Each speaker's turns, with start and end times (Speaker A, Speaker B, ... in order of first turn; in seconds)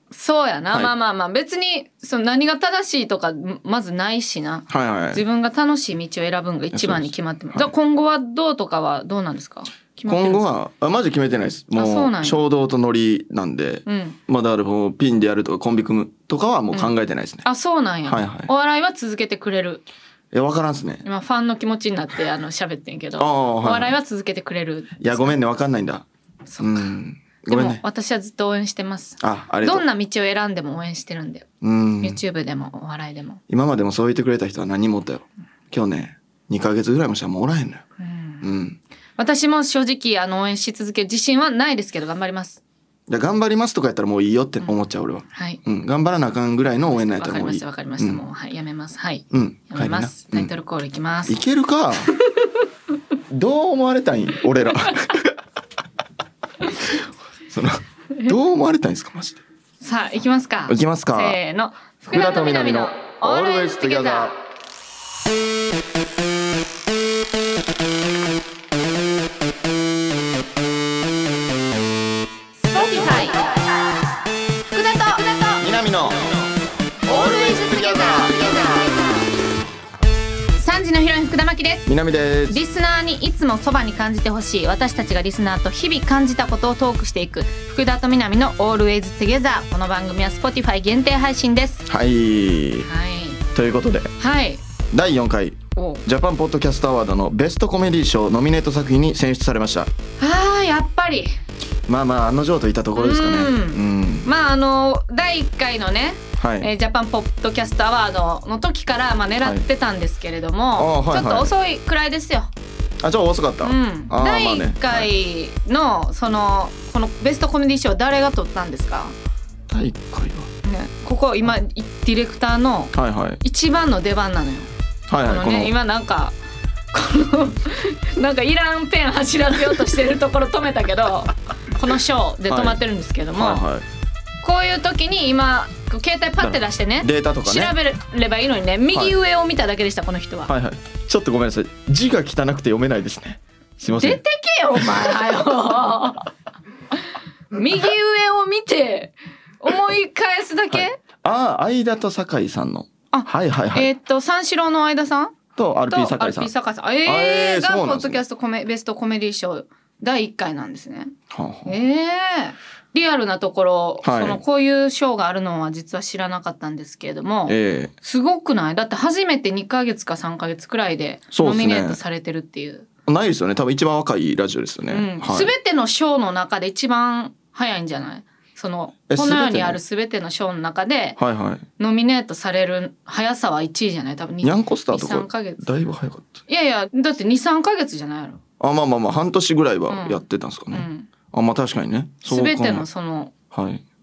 Speaker A: 0.1-10.4, 11.7-12.4, 13.8-14.2, 17.4-19.8, 21.0-25.4, 26.5-26.9, 27.5-31.5, 32.0-33.4, 38.0-38.5, 39.2-42.6, 45.3-45.6, 46.9-51.4, 52.1-52.5, 59.8-64.3, 72.6-73.6, 74.7-75.7, 77.0-79.2, 80.6-81.9, 82.5-91.8, 92.8-93.4, 94.2-94.6, 95.8-96.0, 100.2-101.3, 103.0-112.5, 113.6-119.1, 120.6-124.7, 125.2-126.3, 126.9-133.6, 134.4-140.5, 143.9-146.3, 147.5-151.0, 153.1-155.3, 155.9-161.1, 161.7-172.9, 174.9-181.2, 181.8-185.6, 186.5-188.4, 189.9-191.1, 192.2-193.3
Speaker B: 4.7-5.2, 6.7-7.7, 10.1-17.4, 18.1-18.5, 20.3-21.0, 23.2-23.9, 25.0-26.0, 26.6-27.8, 29.2-29.9, 31.6-32.2, 33.5-37.8, 38.4-38.8, 43.1-48.2, 49.3-50.5, 51.3-52.1, 53.3-55.3, 57.5-59.4, 60.7-61.4, 62.1-64.3, 75.6-76.4, 77.1-79.1, 81.8-82.6, 91.9-92.9, 93.5-94.1, 94.9-99.9, 101.9-104.3, 106.4-106.7, 110.8-111.5, 113.0-115.1, 119.7-120.5, 122.9-123.4, 125.1-125.7, 132.5-132.8, 133.3-133.8, 136.4-137.7, 140.5-144.2, 150.7-153.9, 155.6-156.5, 157.0-158.2, 161.3-161.8, 164.0-164.4, 167.5-167.9, 171.3-172.0, 173.1-175.5, 179.1-179.8, 181.2-181.6, 184.4-186.4, 188.6-192.9, 193.5-193.8